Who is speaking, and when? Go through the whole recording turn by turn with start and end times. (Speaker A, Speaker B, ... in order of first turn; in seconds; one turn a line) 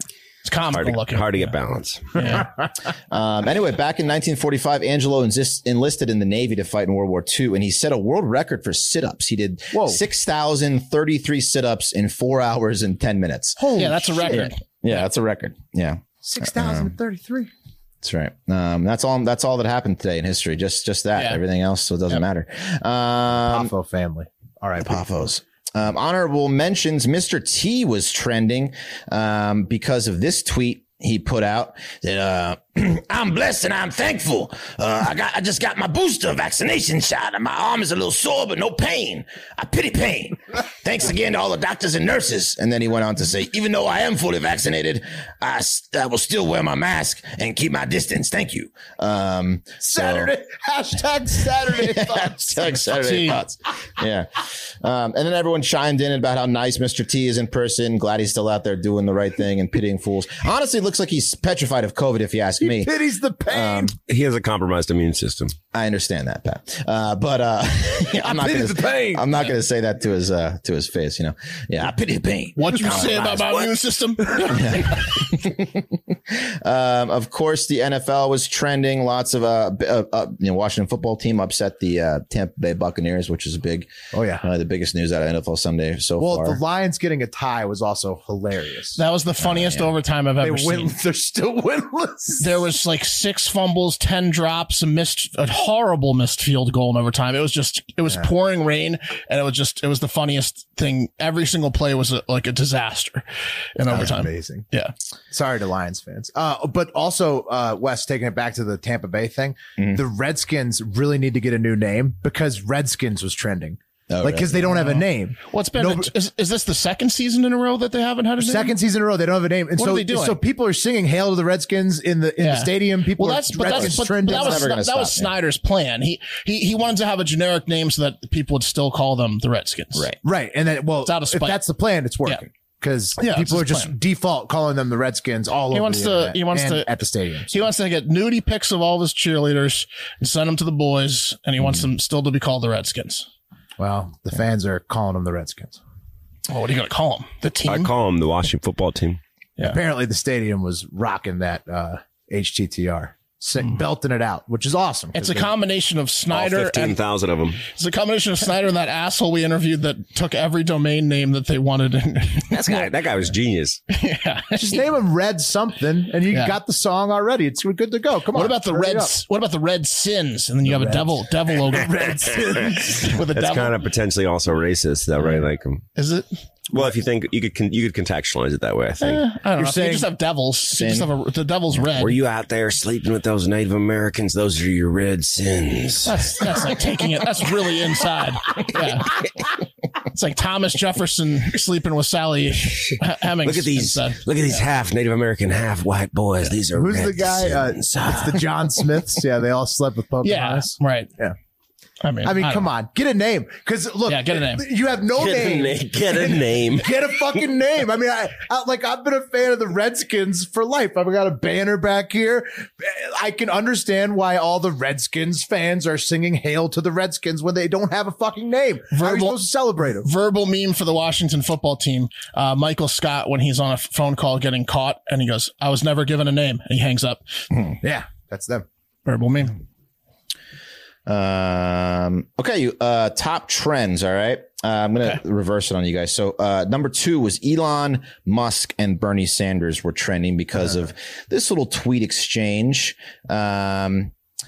Speaker A: 0.4-1.5
Speaker B: 0.7-2.4
Speaker A: 2.1-2.5
Speaker C: 3.1-16.9
Speaker D: 9.7-10.0
Speaker D: 13.6-14.4
Speaker A: 13.7-15.0
Speaker D: 16.2-17.5
Speaker C: 18.0-23.7
Speaker A: 21.1-21.4
Speaker D: 23.3-25.0
Speaker C: 24.8-50.3
Speaker D: 49.8-52.9
Speaker C: 51.4-62.9
Speaker A: 52.9-53.4
Speaker D: 62.6-63.9
Speaker C: 63.5-63.9
Speaker B: 64.1-65.5
Speaker C: 65.7-73.5
Speaker D: 68.2-69.3
Speaker A: 72.5-75.1
Speaker D: 72.7-73.2
Speaker C: 74.5-86.6
Speaker D: 84.1-84.4
Speaker D: 86.2-89.0
Speaker A: 89.0-90.9
Speaker C: 89.4-89.9
Speaker D: 90.4-92.6
Speaker A: 92.4-103.2
Speaker A: 103.8-104.9
Speaker D: 103.9-104.7
Speaker D: 105.3-116.1
Speaker C: 114.1-114.7
Speaker A: 114.6-118.8
Speaker D: 118.4-124.7
Speaker A: 119.8-120.4
Speaker A: 122.4-130.1
Speaker C: 123.7-125.3
Speaker D: 130.2-137.6
Speaker A: 131.0-131.6
Speaker A: 133.2-133.9
Speaker A: 135.7-136.9
Speaker A: 137.5-143.3
Speaker D: 143.8-145.8
Speaker A: 146.5-147.9
Speaker B: 147.6-149.2
Speaker D: 149.6-155.5
Speaker A: 155.1-157.0
Speaker B: 156.3-157.7
Speaker A: 157.7-162.9
Speaker B: 162.5-163.8
Speaker A: 163.9-164.8
Speaker D: 164.5-169.1
Speaker A: 166.3-166.6
Speaker A: 168.3-172.3
Speaker D: 170.7-173.2
Speaker A: 173.0-173.8
Speaker B: 173.3-175.8
Speaker A: 175.9-176.4
Speaker B: 176.7-179.2
Speaker A: 179.0-182.2
Speaker D: 179.6-180.1
Speaker C: 180.7-181.1
Speaker B: 181.9-186.6
Speaker A: 186.0-189.5
Speaker A: 190.1-194.6
Speaker B: 192.8-198.4
Speaker D: 196.7-201.3
Speaker A: 200.2-201.1
Speaker A: 202.0-202.7
Speaker D: 202.2-220.1
Speaker A: 204.1-204.6
Speaker B: 205.2-207.0
Speaker A: 218.9-219.4
Speaker A: 220.0-227.4
Speaker D: 227.8-228.7
Speaker A: 229.1-229.6
Speaker C: 231.1-244.1